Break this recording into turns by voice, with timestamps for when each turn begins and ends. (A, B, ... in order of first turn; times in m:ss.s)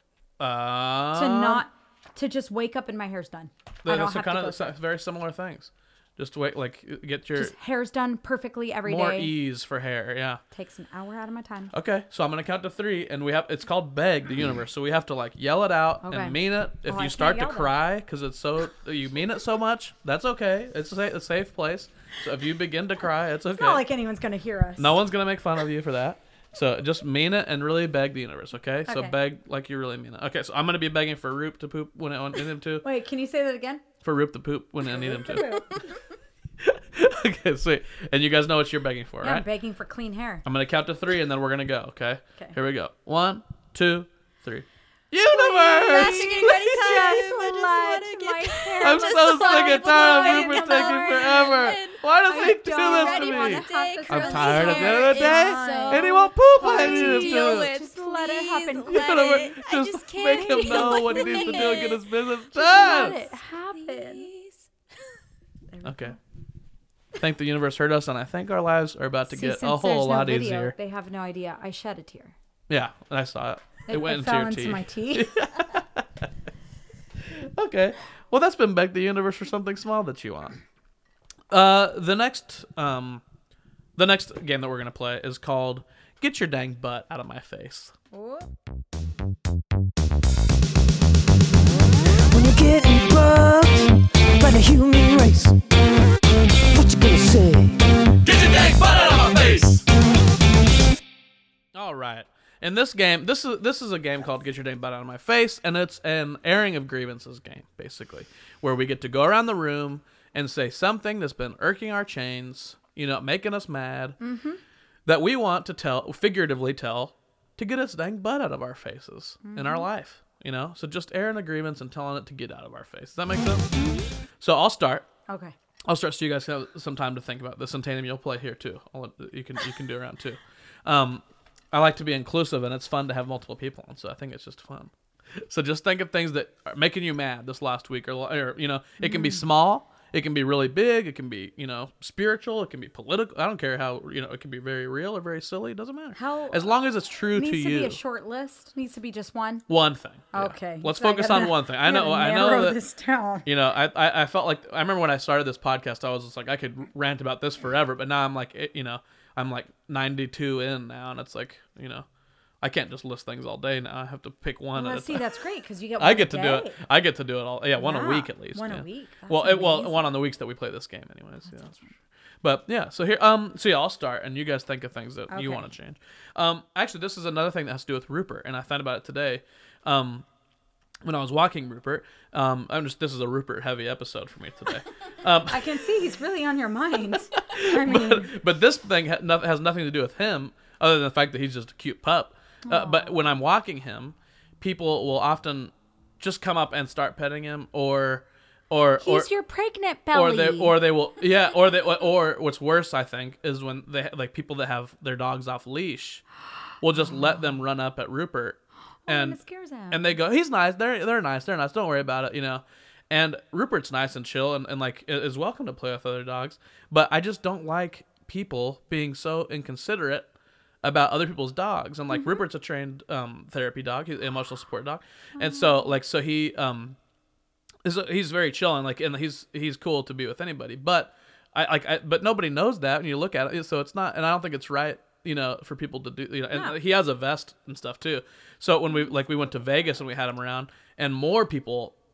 0:00.4-0:01.6 A
0:01.1-0:04.7 B
0:03.8-0:07.6 A
0:07.4-0:09.3 B
0:08.9-0:10.4 A
0:10.5-0:11.7 B
0:11.7-0:23.8 A
0:16.0-0:17.7 B
0:23.5-0:25.0 B
0:24.8-0:32.8 A
0:28.9-0:29.2 B
0:32.8-0:33.8 B
0:34.0-0:35.6 A
0:34.8-0:35.8 B
0:36.6-0:39.5 A
0:39.2-0:40.4 B
0:40.4-0:46.9 A
0:45.3-0:51.7 B
0:45.7-0:52.0 C
0:48.8-0:57.7 A
0:52.2-0:59.6 B
0:52.7-1:02.0 C
0:58.9-1:03.2 A
1:00.3-1:04.3 B
1:02.7-1:04.7 C
1:05.7-1:06.2 B
1:05.8-1:06.2 A
1:07.2-1:10.8 A
1:09.3-1:12.4 B
1:12.7-1:16.3 A
1:13.9-1:15.5 B
1:17.3-1:20.6 A
1:21.5-1:23.2 A
1:24.0-1:27.9 A
1:28.1-1:28.5 B
1:32.2-1:35.6 D
1:36.7-1:37.8 D
1:38.2-1:39.8 A
1:41.7-1:54.2 A
1:54.2-1:54.6 B
1:55.1-2:03.7 A
1:59.4-1:59.9 B
2:03.7-2:04.1 B
2:04.4-2:05.1 A
2:05.3-2:05.6 B
2:05.9-2:28.0 A
2:19.0-2:19.4 B
2:26.2-2:26.7 B
2:27.3-2:29.6 B
2:29.7-2:32.8 A
2:30.3-2:33.5 B
2:33.5-2:42.1 A
2:42.6-2:45.2 A
2:44.8-2:46.8 B
2:46.0-2:51.9 A
2:47.8-2:50.1 B
2:52.4-3:00.3 A
2:55.3-2:55.7 B
3:01.0-3:05.6 A
3:05.5-3:08.4 B
3:07.4-3:19.3 A
3:12.7-3:13.2 B
3:19.0-3:20.8 B
3:20.1-3:26.2 A
3:26.8-3:40.3 A
3:29.1-3:30.2 B
3:40.8-3:47.0 A
3:45.4-3:45.8 B
3:47.8-4:02.0 A